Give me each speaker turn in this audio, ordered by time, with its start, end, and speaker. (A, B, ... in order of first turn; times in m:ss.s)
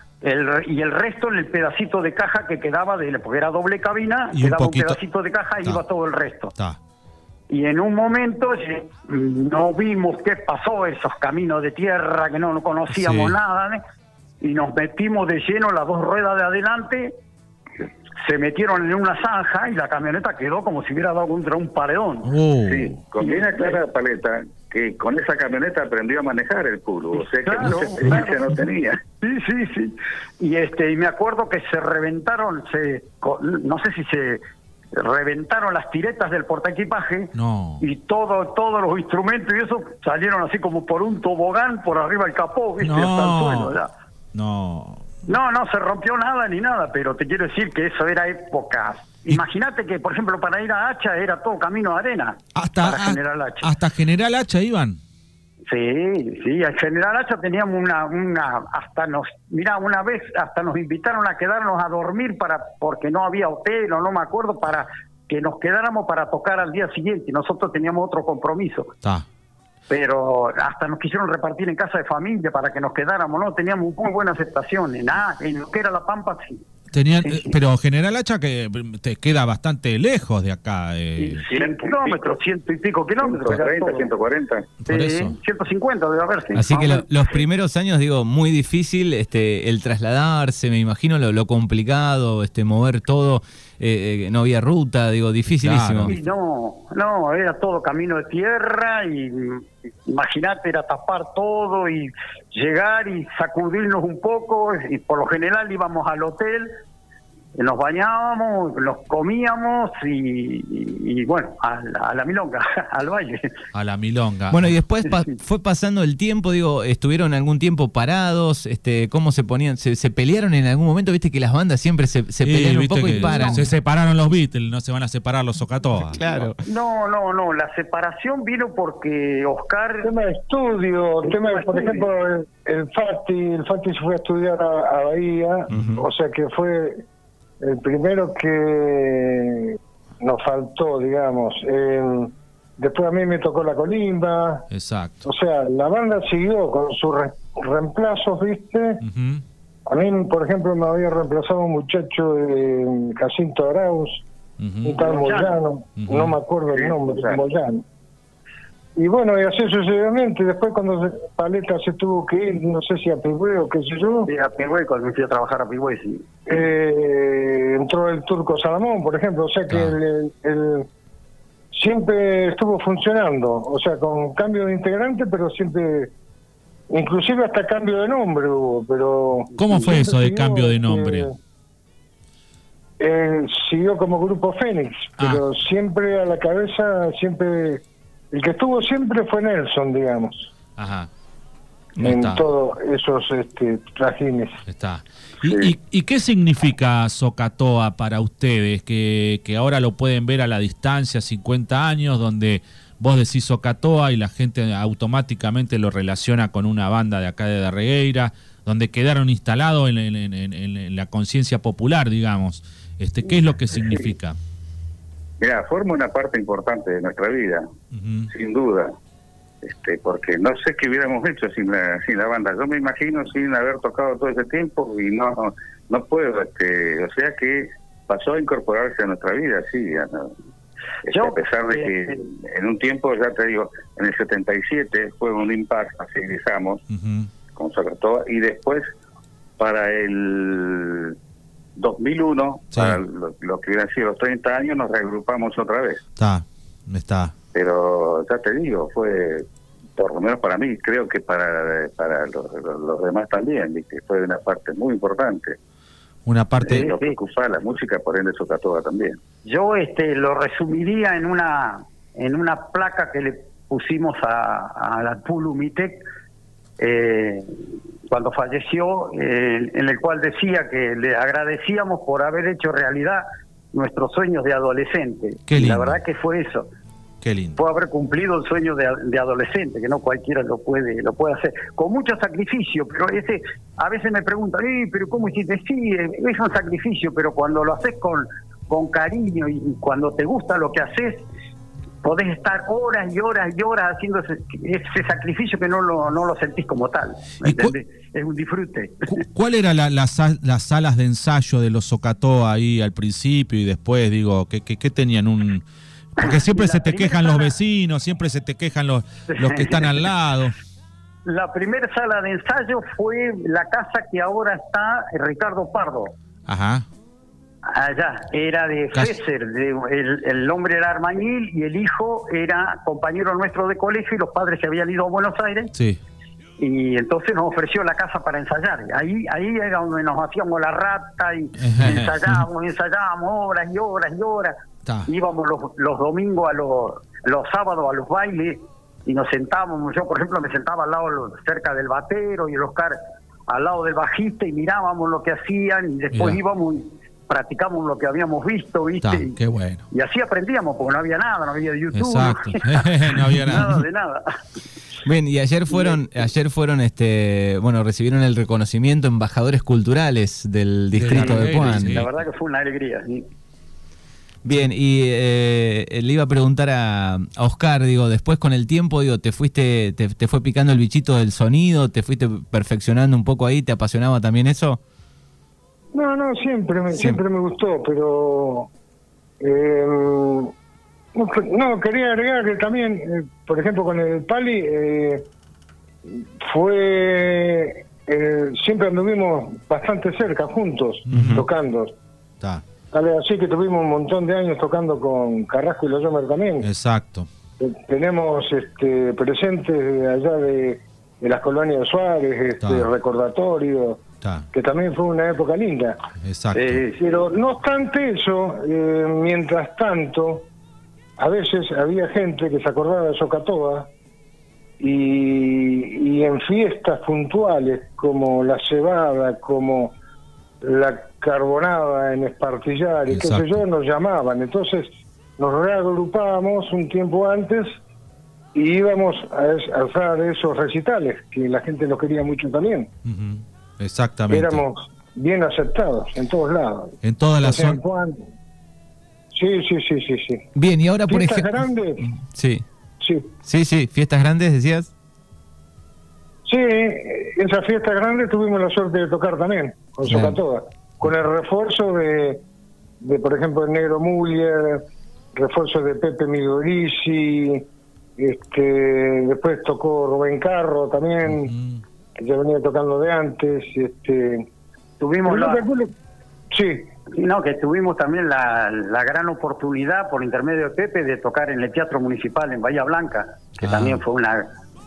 0:00.2-0:06.5 A
0:04.3-0:05.0 B
0:07.5-0:13.8 A
0:12.9-0:13.4 B
0:14.4-0:17.1 A
0:18.2-0:22.3 A
0:22.2-0:23.0 B
0:22.7-0:29.0 C
0:23.2-0:23.8 A
0:27.3-0:28.4 A
0:29.2-0:34.4 A
0:34.9-0:43.9 A
0:37.3-0:37.8 B
0:42.8-0:43.8 B
0:44.3-0:45.0 B
0:45.3-0:53.7 A
0:52.6-0:55.0 B
0:55.7-1:08.9 A
1:09.9-1:16.6 A
1:16.9-1:21.4 B
1:17.2-1:17.6 A
1:21.2-1:24.1 A
1:21.4-1:22.4 C
1:23.2-1:24.7 C
1:24.8-1:25.4 B
1:24.9-1:27.1 A
1:26.6-1:36.2 D
1:35.5-1:36.2 B
1:36.1-1:46.7 A
1:47.6-1:53.5 A
1:53.7-1:54.8 B
1:54.5-2:03.6 D
1:55.0-1:55.3 A
2:02.4-2:06.5 B
2:03.2-2:03.6 A
2:06.1-2:06.6 D
2:06.7-2:10.1 A
2:10.0-2:17.0 E
2:11.3-2:12.0 A
2:15.7-2:16.0 D
2:17.6-2:24.7 E
2:24.7-2:25.2 B
2:25.2-2:29.0 E
2:29.0-2:29.4 B
2:29.9-2:34.2 E
2:34.6-2:35.0 B
2:34.8-2:37.8 E
2:35.0-2:35.6 A
2:36.0-2:36.4 B
2:36.7-2:37.4 C
2:39.0-2:44.3 E
2:44.3-2:46.3 A
2:46.5-2:50.9 E
2:49.7-2:50.0 B
2:51.7-2:56.1 E
2:56.9-3:01.4 E
2:59.6-3:01.3 B
3:03.0-3:10.5 E
3:05.2-3:05.4 B
3:10.8-3:11.1 B
3:12.0-3:12.4 B
3:12.0-3:14.6 E
3:14.7-3:34.4 B
3:15.5-3:15.7 C
3:35.4-3:37.7 C
3:37.9-3:38.3 B
3:38.3-3:38.9 C
3:39.6-3:50.3 C
3:51.1-3:56.8 C
3:51.1-3:51.9 A
3:56.9-3:57.3 B
3:57.5-3:58.9 C
3:59.6-4:01.2 C
4:01.8-4:06.0 C
4:02.7-4:03.0 B
4:06.2-4:07.3 B
4:07.5-4:09.5 C
4:10.0-4:15.6 C
4:16.3-4:16.9 B
4:16.6-4:19.2 C
4:16.6-4:17.2 A
4:19.4-4:26.0 A
4:26.8-4:27.6 A
4:28.1-4:36.7 A
4:35.5-4:36.0 B
4:37.2-4:37.6 B
4:37.6-4:51.3 A
4:52.0-4:59.2 A
4:57.4-4:57.8 B
4:59.1-5:05.6 B
5:06.2-5:10.6 B
5:06.2-5:07.6 A
5:09.3-5:10.1 A
5:11.3-5:16.1 A
5:16.5-5:16.9 B
5:17.6-5:25.7 A
5:25.7-5:26.0 B
5:26.6-5:43.0 A
5:31.6-5:32.4 B
5:34.8-5:35.1 B
5:43.5-5:49.4 A
5:46.1-5:46.4 B
5:49.0-5:49.8 B
5:49.9-5:54.4 A
5:51.9-5:53.8 B
5:55.0-6:02.0 D
5:55.7-5:56.0 A
6:00.9-6:02.1 B
6:01.1-6:03.3 A
6:04.4-6:14.8 D
6:15.9-6:18.7 E
6:19.4-6:20.5 E
6:21.1-6:25.3 E
6:26.1-6:32.0 E
6:31.1-6:31.4 B
6:31.1-6:31.4 D
6:32.9-6:36.7 E
6:36.6-6:37.3 B
6:37.6-6:46.0 E
6:42.6-6:42.9 B
6:44.2-6:44.5 B
6:46.2-6:46.8 B
6:46.5-6:47.2 C
6:47.0-6:50.5 E
6:51.2-6:53.9 E
6:54.8-7:00.0 E
7:00.6-7:07.8 E
7:03.1-7:03.6 B
7:08.5-7:12.9 E
7:13.0-7:14.6 B
7:14.3-7:18.3 E
7:17.0-7:17.8 B
7:19.3-7:20.5 E
7:20.6-7:22.6 D
7:21.1-7:22.1 E
7:23.0-7:23.3 E
7:23.4-7:24.9 D
7:26.5-7:32.4 E
7:30.1-7:30.4 D
7:33.0-7:37.7 E
7:38.2-7:41.5 E
7:41.3-7:41.8 B
7:42.2-7:44.5 E
7:45.0-7:45.7 A
7:45.3-7:45.9 E
7:46.5-7:46.9 E
7:47.1-7:54.5 A
7:53.6-7:54.0 B